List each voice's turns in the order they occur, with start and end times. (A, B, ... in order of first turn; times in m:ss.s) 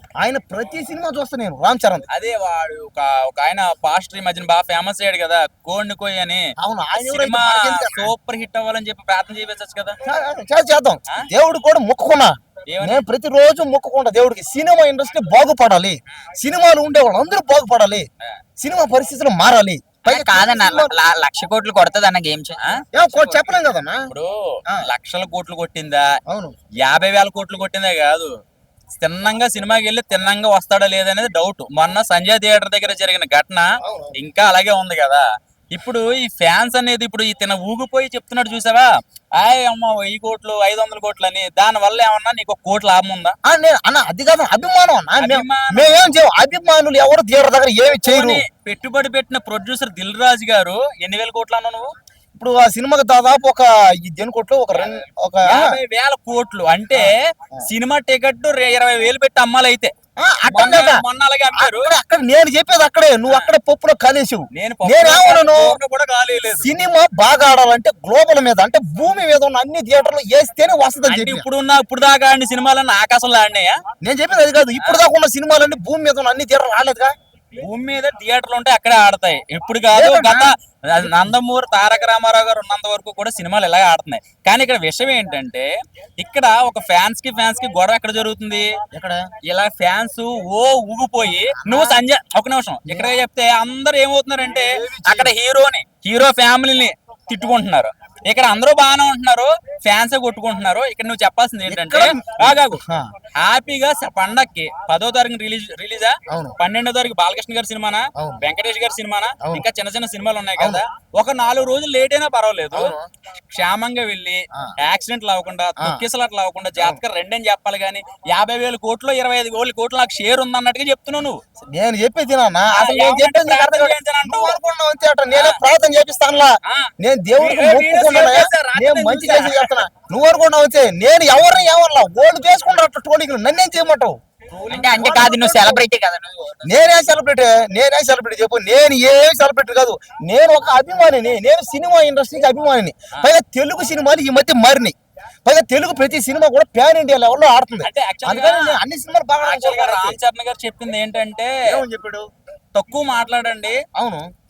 0:00.2-0:02.0 A
0:02.1-0:06.4 B
0:06.6-0:08.1 A
0:07.0-0:10.0 B
0:10.0-0:18.1 A
0:12.7-0:13.0 B
0:18.6-0:21.0 A
0:20.0-0:23.5 C
0:22.9-0:24.1 A
0:24.1-0:26.0 B
0:26.3-0:26.6 A
0:26.8-0:28.3 B
0:29.0-0:43.3 B
0:33.8-0:34.2 A
0:43.4-0:48.4 A
0:45.2-0:46.1 B
0:47.8-0:51.9 B
0:52.4-0:55.7 A
0:54.7-0:59.9 B
0:56.9-0:57.6 A
1:00.2-1:01.0 A
1:00.5-1:01.9 B
1:01.5-1:05.8 A
1:04.5-1:06.7 B
1:06.6-1:11.5 A
1:11.1-1:13.8 B
1:14.0-1:17.1 A
1:14.8-1:15.0 B
1:17.6-1:25.7 B
1:19.9-1:20.5 A
1:26.2-1:28.7 B
1:28.9-1:29.3 A
1:29.5-1:42.8 B
1:31.6-1:32.0 A
1:32.9-1:33.1 A
1:34.4-1:35.3 A
1:41.7-1:43.1 A
1:43.4-1:53.0 B
1:46.3-1:46.6 A
1:48.2-1:48.4 A
1:50.6-1:50.8 A
1:52.7-1:53.1 A
1:53.5-2:01.4 B
2:01.7-2:14.2 A
2:02.7-2:04.6 B
2:05.3-2:05.6 B
2:07.4-2:09.9 B
2:14.6-2:15.2 B
2:14.6-2:16.6 C
2:14.7-2:15.8 A
2:16.6-2:30.2 A
2:27.8-2:28.8 B
2:29.4-2:31.8 B
2:31.6-2:32.2 A
2:32.7-2:33.8 B
2:34.0-2:34.2 A